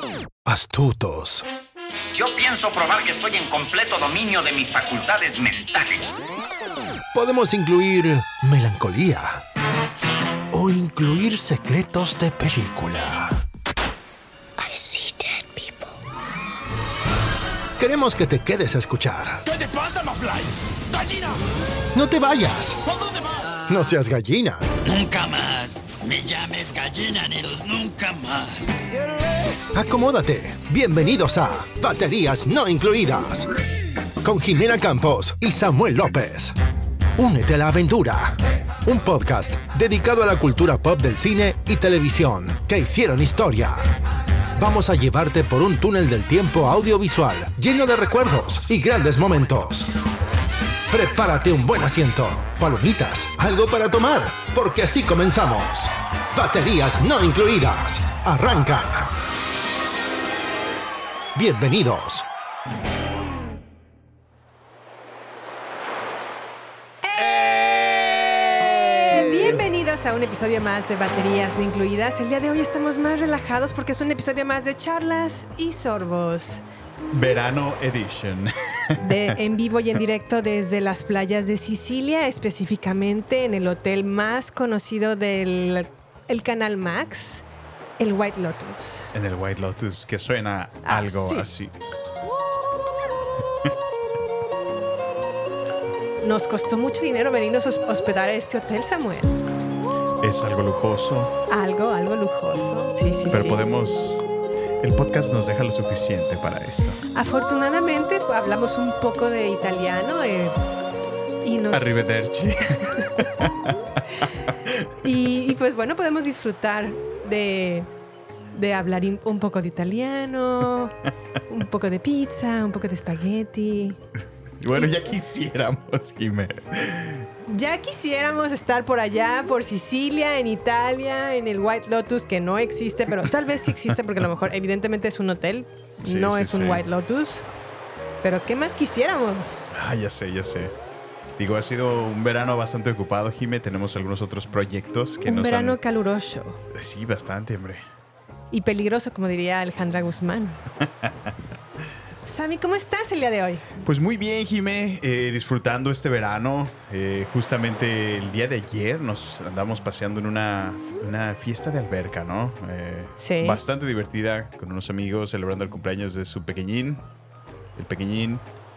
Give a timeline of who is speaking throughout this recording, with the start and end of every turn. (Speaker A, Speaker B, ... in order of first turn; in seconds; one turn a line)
Speaker A: 0.5-1.5
Speaker B: 2.1-6.1
Speaker A: 7.1-9.4
Speaker A: 10.5-13.4
Speaker A: 17.8-19.4
Speaker C: 19.5-21.4
Speaker A: 21.9-22.9
Speaker C: 22.9-23.4
Speaker A: 23.5-24.7
Speaker C: 24.9-28.8
Speaker A: 29.7-33.5
Speaker A: 34.2-36.6
Speaker A: 37.2-44.0
Speaker A: 44.6-50.0
Speaker A: 50.9-59.1
Speaker A: 61.4-62.3
Speaker D: 67.0-76.6
Speaker E: 69.1-69.6
Speaker E: 77.1-79.3
Speaker D: 79.0-87.5
Speaker D: 88.0-89.1
Speaker E: 89.1-91.7
Speaker D: 90.8-91.5
Speaker D: 96.2-99.4
Speaker E: 100.2-101.3
Speaker D: 101.5-103.6
Speaker E: 103.3-104.2
Speaker E: 104.8-107.0
Speaker D: 107.1-110.5
Speaker D: 111.4-111.9
Speaker E: 111.7-113.5
Speaker D: 115.0-117.9
Speaker D: 118.5-121.0
Speaker D: 121.5-124.0
Speaker E: 124.6-127.3
Speaker D: 127.5-137.4
Speaker E: 136.0-136.8
Speaker D: 138.2-139.6
Speaker E: 139.7-140.7
Speaker E: 141.4-145.8
Speaker D: 145.2-146.6
Speaker E: 146.7-147.8
Speaker D: 148.5-150.6
Speaker D: 152.3-153.7
Speaker E: 153.8-167.0
Speaker D: 163.2-163.6
Speaker E: 167.8-168.4